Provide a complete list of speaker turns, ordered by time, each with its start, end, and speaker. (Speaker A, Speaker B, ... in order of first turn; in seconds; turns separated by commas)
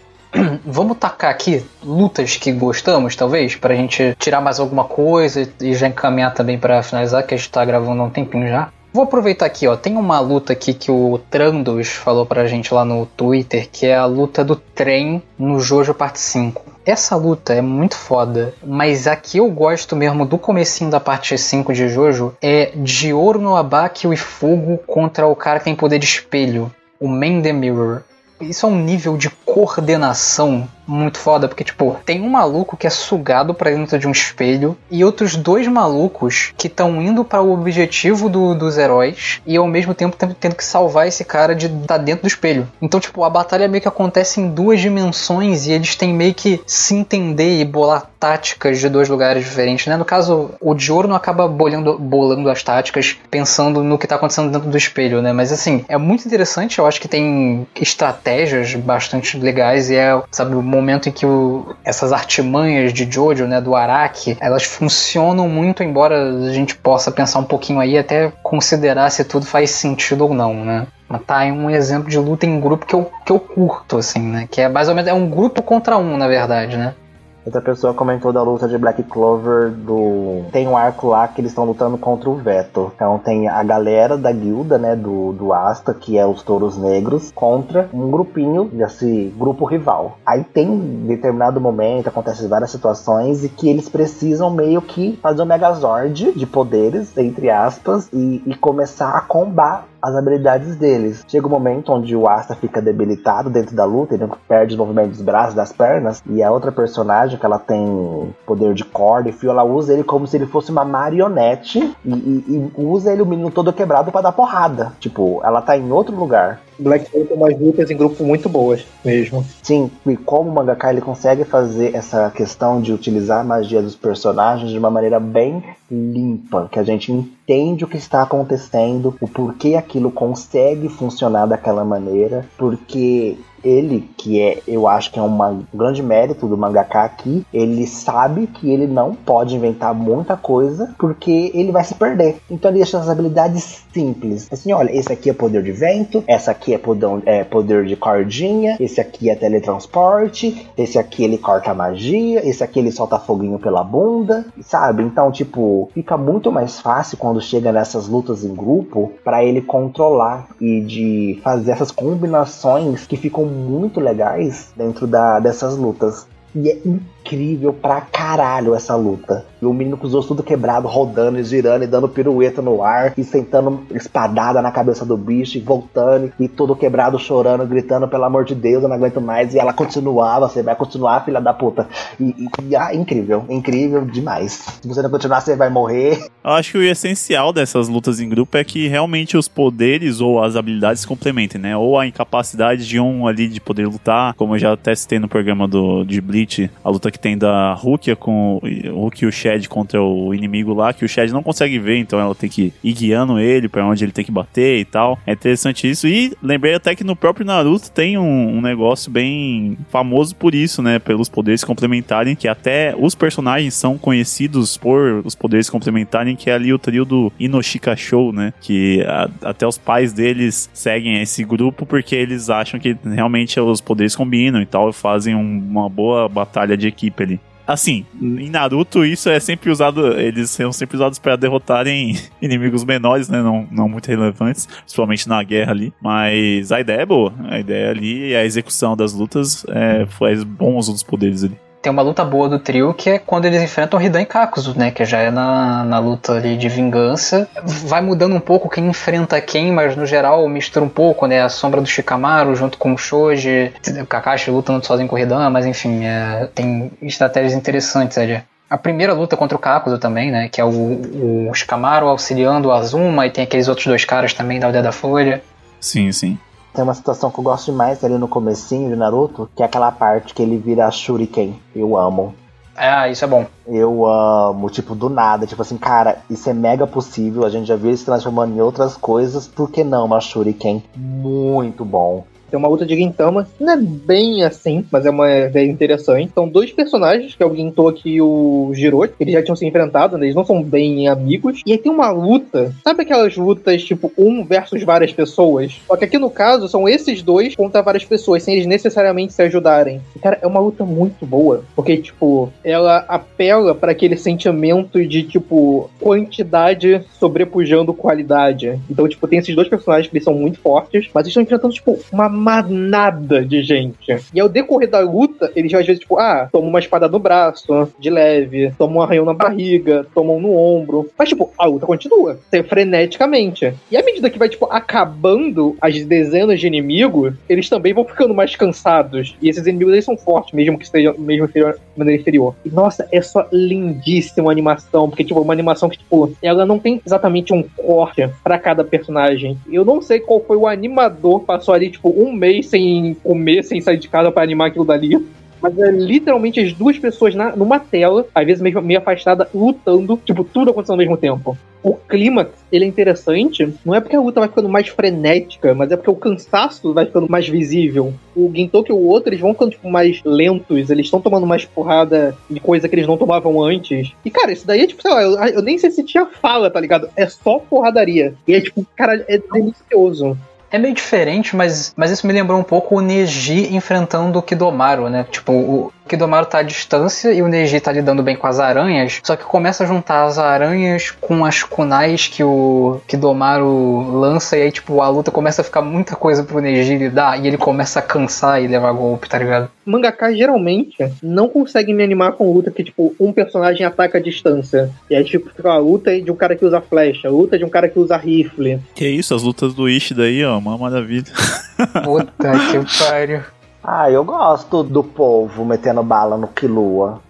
Speaker A: 0.3-77.0, Speaker B: 77.4-116.6, Speaker C: 116.8-119.5, Speaker B: 119.6-186.1, Speaker D: 186.4-241.6, Speaker A: 241.8-265.4, Speaker D: 265.8-266.4, Speaker B: 266.7-272.4, Speaker A: 272.8-273.5, Speaker B: 273.7-282.3, Speaker C: 282.5-370.4, Speaker A: 370.7-389.7, Speaker C: 389.9-398.8, Speaker D: 399.0-402.0, Speaker A: 402.0-403.5, Speaker B: 403.8-407.2